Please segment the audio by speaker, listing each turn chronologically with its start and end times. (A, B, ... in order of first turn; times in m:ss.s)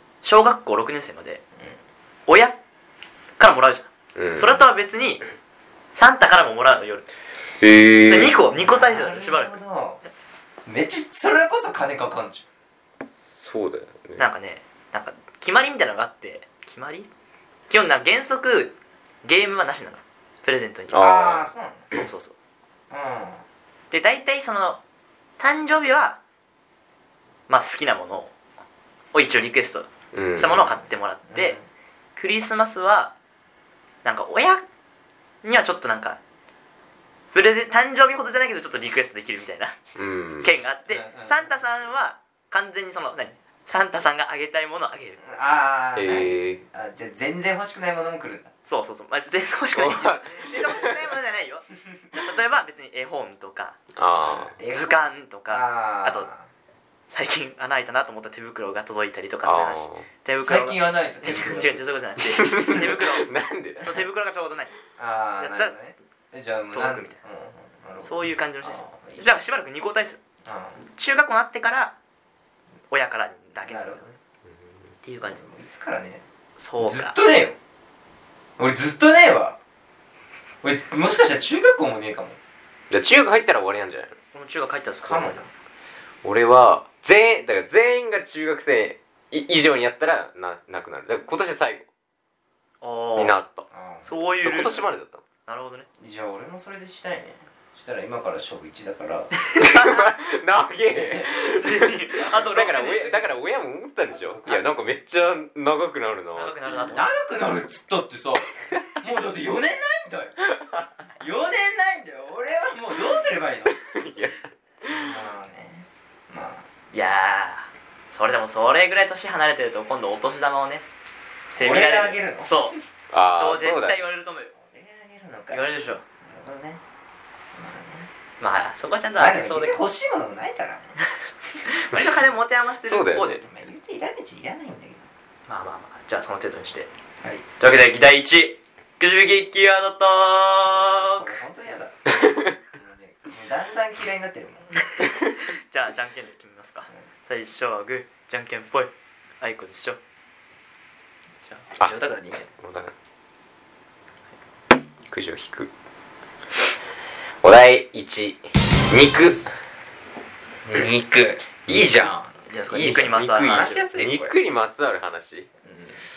0:00.2-0:01.4 A
0:02.3-0:02.6 A
0:03.4-0:05.2 A
0:04.1-0:04.6 B
0:05.9-0:07.1 A
0:07.6-0:08.4 B
0:08.0-0:09.6 A
0:08.4-0:10.0 C
0:10.6-0:12.4 C
0:13.2-0:14.2 B
0:14.2-0:17.1 A
0:17.7-0:21.1 A
0:20.9-0:21.5 B
0:20.9-0:21.9 C
0:21.9-0:22.3 A
0:22.9-0:23.4 C
0:23.9-0:24.8 A
0:25.4-0:26.2 A
0:27.5-0:28.3 A
0:29.1-0:31.6 A
0:30.1-0:30.6 B
0:31.3-0:31.6 C
0:32.2-0:33.1 A
0:34.0-0:34.6 A
0:35.4-0:36.2 A
0:37.3-0:39.8 A
0:40.0-0:40.5 B
0:40.4-0:45.2 A
0:40.9-0:41.4 C
0:45.2-0:48.5 C
0:46.0-0:46.6 B
0:48.7-0:53.8 A
0:49.7-0:50.9 B
0:53.9-0:54.5 B
0:54.2-0:56.4 C
0:54.7-0:56.3 A
0:57.1-1:04.7 A
0:59.4-1:00.1 B
1:00.4-1:01.8 C
1:02.3-1:04.0 B
1:05.0-1:09.2 C
1:05.4-1:05.8 A
1:06.7-1:07.2 A
1:08.0-1:10.2 A
1:10.4-1:10.8 C
1:10.8-1:11.9 A
1:12.9-1:14.0 A
1:13.6-1:14.2 C
1:15.0-1:15.4 A
1:15.2-1:16.2 C
1:16.6-1:17.2 A
1:16.8-1:17.6 C
1:18.6-1:19.6 C
1:20.6-1:22.4 C
1:22.9-1:24.1 B
1:24.3-1:25.4 A
1:25.0-1:25.5 C
1:26.2-1:31.9 B
1:32.8-1:33.4 A
1:33.2-1:33.7 B
1:33.7-1:34.1 C
1:34.0-1:34.9 A
1:34.4-1:35.2 B
1:35.4-1:35.9 A
1:36.0-1:39.3 C
1:39.4-1:40.2 A
1:39.6-1:46.6 B
1:41.2-1:43.3 A
1:42.6-1:43.1 C
1:44.2-1:44.9 C
1:46.3-1:47.1 A
1:46.9-1:50.4 C
1:50.6-1:50.8 B
1:51.1-1:53.8 C
1:53.8-1:55.1 B
1:54.8-1:56.7 C
1:56.9-2:00.9 A
2:01.5-2:02.8 A
2:01.5-2:02.7 C
2:03.1-2:04.0 B
2:03.3-2:04.5 A
2:04.6-2:06.8 C
2:05.5-2:06.0 A
2:07.5-2:08.1 C
2:08.4-2:09.8 A
2:09.2-2:11.0 C
2:11.6-2:13.4 A
2:12.8-2:13.4 B
2:13.3-2:15.1 C
2:15.5-2:16.9 A
2:17.6-2:21.4 A
2:20.6-2:24.8 C
2:25.0-2:30.0 A
2:31.7-2:32.5 C
2:32.6-2:32.9 B
2:35.1-2:35.7 B
2:37.4-2:39.4 B
2:40.6-2:44.4 C
2:42.5-2:43.8 A
2:42.8-2:45.5 B
2:45.6-2:46.0 C